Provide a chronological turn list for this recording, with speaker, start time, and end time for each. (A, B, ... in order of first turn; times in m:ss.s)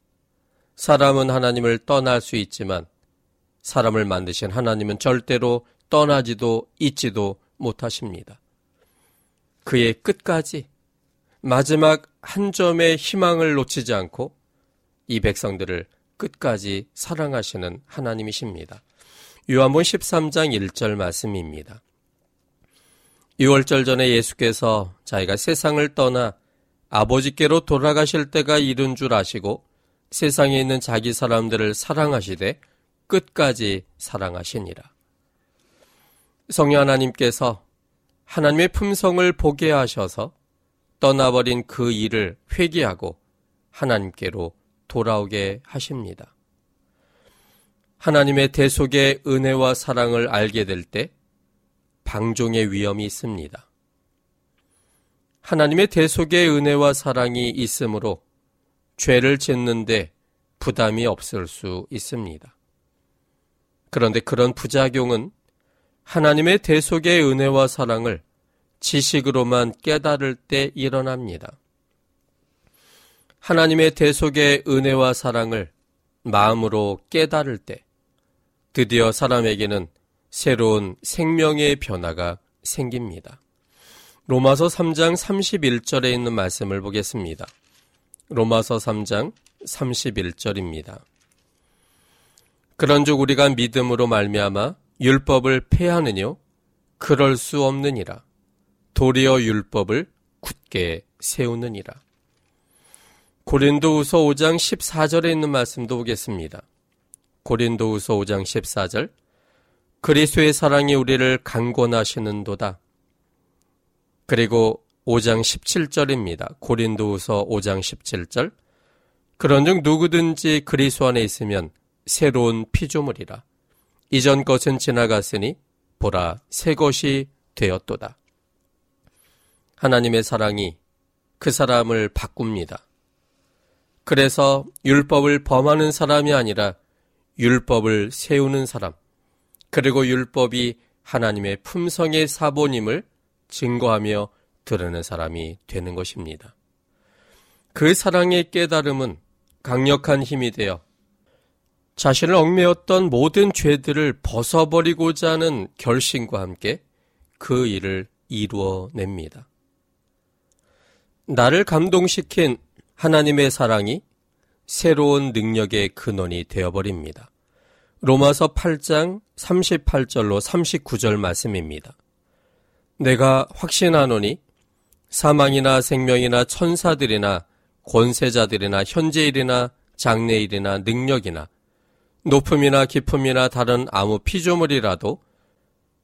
0:00.8-0:02.9 A
0:03.6-0:08.4 A
0:09.6-0:10.7 A
0:11.4-0:14.3 A
0:15.1-0:18.8 A
0:19.5-0:21.8 A
0:23.4-0:26.4 A
0:26.9-0:34.9 A
0:36.5-0:37.6 A
0:38.3-0:40.3 A
0:41.0-0:43.2 A
0:43.7-0:46.3 A
0:48.0-0:51.1 A
0:52.0-0:53.6 A
0:55.4-0:58.2 A
0:59.0-1:02.5 A
1:03.9-1:05.3 A
1:06.1-1:08.2 A
1:08.8-1:11.6 A
1:13.4-1:15.7 A
1:16.2-1:17.8 A
1:18.7-1:23.4 A
1:24.3-1:27.5 A
1:28.3-1:31.0 A
1:32.8-1:36.4 A
1:37.0-1:38.2 A
1:38.9-1:42.0 A
1:43.4-1:46.6 A
1:47.4-1:49.1 A
1:50.0-1:52.8 A
1:54.3-1:58.5 A
1:59.4-2:03.4 A
2:04.1-2:08.2 A
2:09.8-2:10.8 A
2:11.4-2:12.8 A
2:14.0-2:16.8 A
2:17.4-2:19.0 A
2:19.7-2:26.5 A
2:27.7-2:30.8 A
2:32.0-2:36.8 A
2:37.4-2:39.5 A
2:41.3-2:44.0 A
2:44.7-2:47.3 A
2:48.0-2:51.9 A
2:53.0-2:54.4 A
2:55.1-3:01.5 A
3:02.2-3:05.2 A